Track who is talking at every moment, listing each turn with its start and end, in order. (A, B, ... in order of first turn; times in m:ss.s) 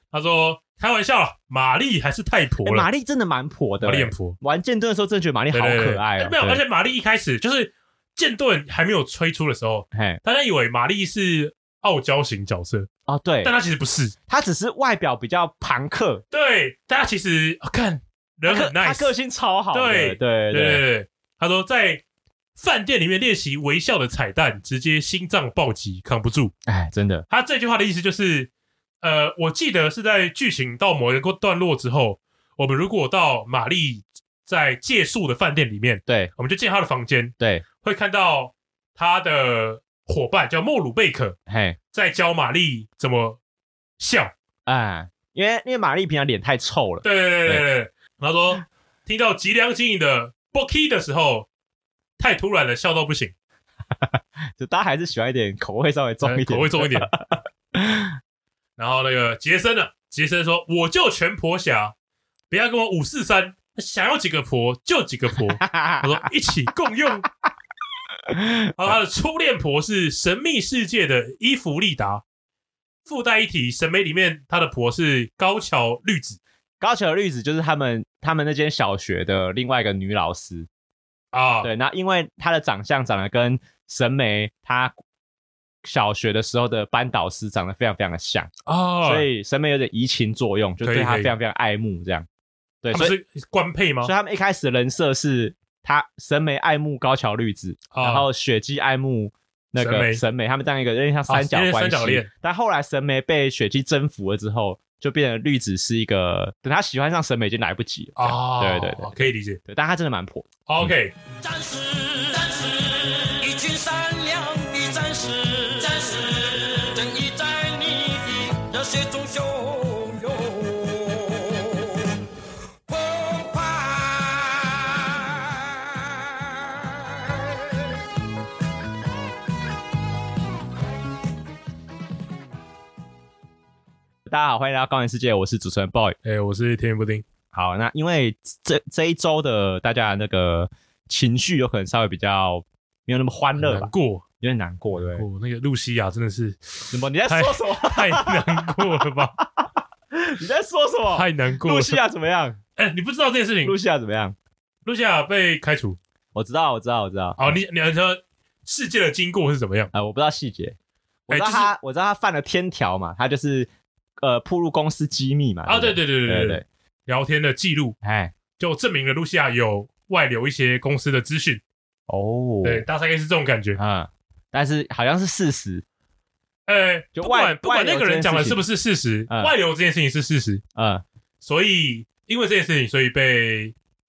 0:00.1-0:02.9 A
0:02.6-0:06.6 B
0:03.8-0:04.4 A
0:05.5-0:12.9 A
0:09.9-0:10.2 B
0:13.1-0:13.5 B
0:13.4-0:14.1 A
0:14.3-0:16.2 B
0:16.3-0:19.1 A
0:18.4-0:20.8 B
0:19.7-0:22.0 A
0:22.6-0:26.5 A
0:26.7-0:27.3 B
0:27.3-0:28.5 A
0:29.0-0:41.4 A
0:36.0-0:36.3 B
0:37.4-0:37.6 B
0:41.5-0:41.8 B
0:41.9-0:43.4 A
0:44.0-0:44.3 A
0:44.6-0:47.6 B
0:47.0-0:51.5 A
0:52.2-0:53.3 A
0:54.6-0:58.2 B
0:56.2-0:57.1 A
0:58.8-1:01.9 A
1:02.5-1:07.2 A
1:05.6-1:06.1 B
1:08.7-1:12.2 A
1:13.0-1:16.4 A
1:16.8-1:20.7 B
1:21.3-1:21.7 A
1:21.6-1:24.9 B
1:25.8-1:28.5 B
1:28.6-1:29.3 A
1:29.0-1:32.3 B
1:30.8-1:31.3 A
1:32.8-1:33.2 B
1:32.9-1:34.1 A
1:34.0-1:50.9 B
1:37.9-1:38.2 A
1:39.8-1:40.2 A
1:41.3-1:42.3 A
1:48.2-1:49.6 A
1:50.7-1:51.2 A
1:51.4-2:02.1 C
2:02.9-2:06.0 C
2:14.2-2:16.2 B
2:16.2-2:17.2 A
2:17.5-2:25.2 B
2:23.6-2:24.2 A
2:25.1-2:29.3 A
2:26.9-2:32.6 B
2:31.1-2:32.0 A
2:32.8-2:33.8 A
2:33.6-2:34.4 B
2:34.8-2:36.0 A
2:36.3-2:37.5 B
2:37.4-2:39.9 A
2:39.9-2:40.8 B
2:41.3-2:43.7 B
2:41.3-2:41.7 A
2:44.2-2:46.6 B
2:45.6-2:48.0 A
2:48.0-2:48.3 B
2:48.6-2:51.6 A
2:52.1-2:52.8 B
2:52.6-2:53.8 A
2:53.8-2:55.8 B
2:56.7-3:00.6 A
2:57.1-2:58.6 B
2:59.3-2:59.5 B
3:00.8-3:01.0 B
3:01.4-3:03.7 A